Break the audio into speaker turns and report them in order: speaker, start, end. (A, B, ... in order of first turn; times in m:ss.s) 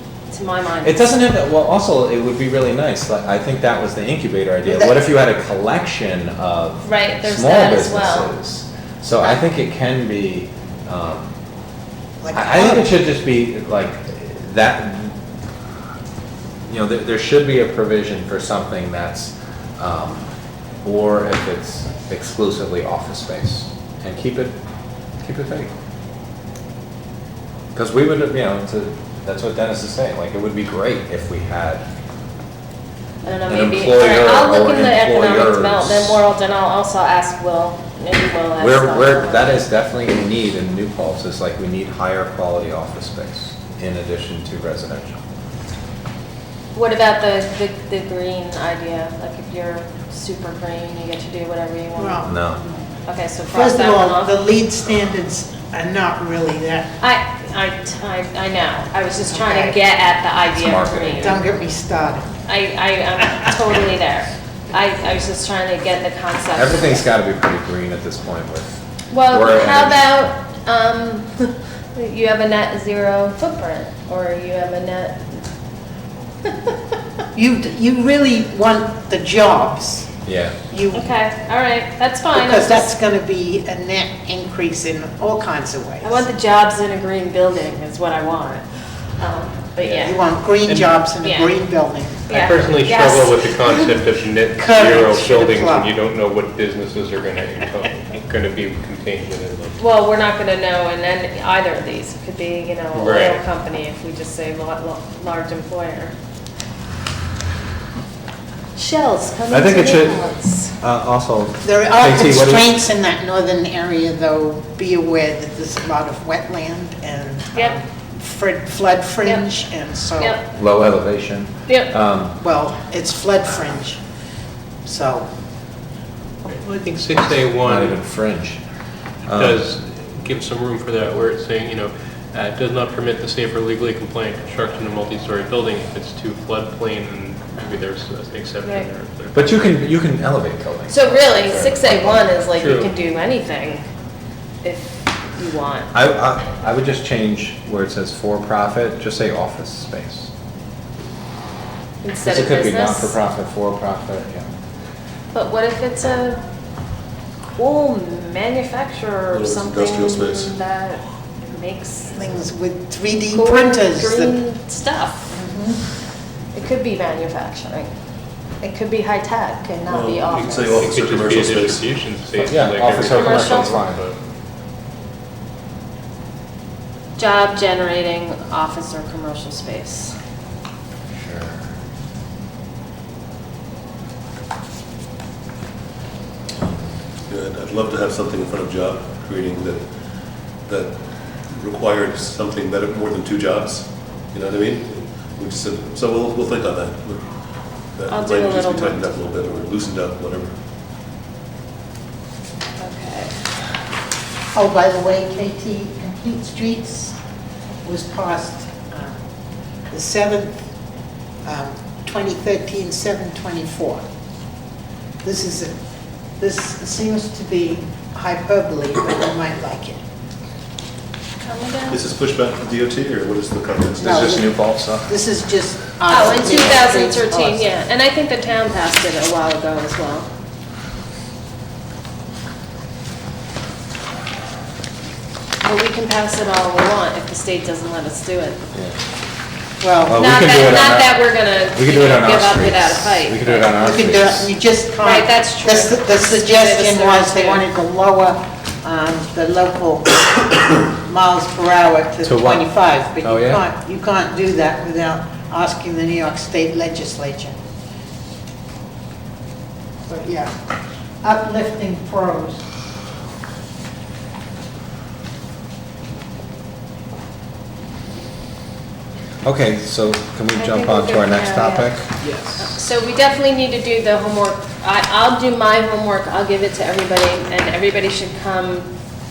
0:00.3-0:01.1 A
0:00.8-0:11.4 B
0:04.7-0:05.0 C
0:06.8-0:08.3 A
0:12.2-0:12.9 C
0:12.3-0:15.2 B
0:16.6-0:20.2 B
0:20.8-0:24.6 B
0:25.2-0:25.7 B
0:27.7-0:31.8 B
0:33.2-0:39.7 A
0:33.5-0:36.2 B
0:38.6-0:45.2 B
0:46.7-0:52.3 A
0:52.0-0:52.9 C
0:52.2-0:52.6 B
0:53.0-0:54.4 A
0:53.5-0:56.9 C
0:57.0-1:01.4 A
0:59.3-0:59.8 C
1:00.5-1:01.4 B
1:01.2-1:02.3 C
1:02.4-1:07.0 A
1:06.5-1:10.2 B
1:09.1-1:15.3 A
1:16.4-1:16.7 A
1:17.3-1:20.1 C
1:20.2-1:20.6 B
1:20.7-1:21.1 C
1:20.9-1:22.9 A
1:22.3-1:26.2 C
1:26.0-1:30.2 A
1:29.8-1:31.0 D
1:30.0-1:32.3 C
1:31.2-1:31.5 A
1:32.3-1:33.4 A
1:32.3-1:39.8 D
1:33.7-1:34.0 C
1:34.5-1:35.9 C
1:39.8-1:46.1 A
1:42.9-1:43.4 D
1:48.8-1:50.8 A
1:49.5-1:50.3 B
1:50.8-1:52.7 B
1:51.6-2:00.4 C
2:00.2-2:00.4 A
2:00.5-2:02.4 B
2:01.7-2:01.9 A
2:02.4-2:04.0 C
2:04.8-2:05.3 C
2:06.4-2:08.0 D
2:07.6-2:08.6 B
2:09.3-2:09.6 B
2:09.3-2:19.6 D
2:18.6-2:18.9 A
2:19.3-2:22.3 B
2:20.9-2:23.8 A
2:22.6-2:22.9 D
2:24.6-2:25.9 A
2:25.9-2:30.3 B
2:32.0-2:33.2 A
2:32.2-2:34.5 B
2:35.3-2:36.4 A
2:37.6-2:42.2 A
2:39.3-2:40.6 E
2:42.1-2:44.4 C
2:43.3-2:45.4 A
2:45.3-2:45.8 C
2:46.5-2:47.9 A
2:48.6-2:50.8 A
2:49.8-2:51.9 E
2:50.7-2:54.2 D
2:52.4-2:54.0 B
2:53.1-2:53.8 A
2:57.2-3:00.1 A
3:01.1-3:01.7 B
3:07.3-3:09.8 E
3:10.6-3:10.9 E
3:11.5-3:17.3 E
3:17.9-3:20.5 E
3:18.1-3:19.2 A
3:22.8-3:23.3 A
3:24.5-3:27.2 C
3:27.8-3:29.2 C
3:29.9-3:30.6 C
3:31.4-3:34.0 C
3:35.2-3:35.7 C
3:36.4-3:40.0 C
3:41.4-3:42.0 A
3:41.9-3:44.4 E
3:44.0-3:45.1 B
3:44.0-3:47.7 C
3:46.1-3:50.3 A
3:55.6-3:58.7 A
3:58.7-3:59.0 B
3:59.8-4:00.3 C
4:00.0-4:04.5 B
4:00.1-4:03.8 A
4:03.8-4:17.5 C
4:05.0-4:07.6 A
4:12.2-4:13.7 B
4:20.1-4:20.5 C
4:21.2-4:22.6 C
4:29.4-4:32.1 B
4:30.5-4:31.9 A
4:32.2-4:32.6 D
4:32.6-4:38.9 A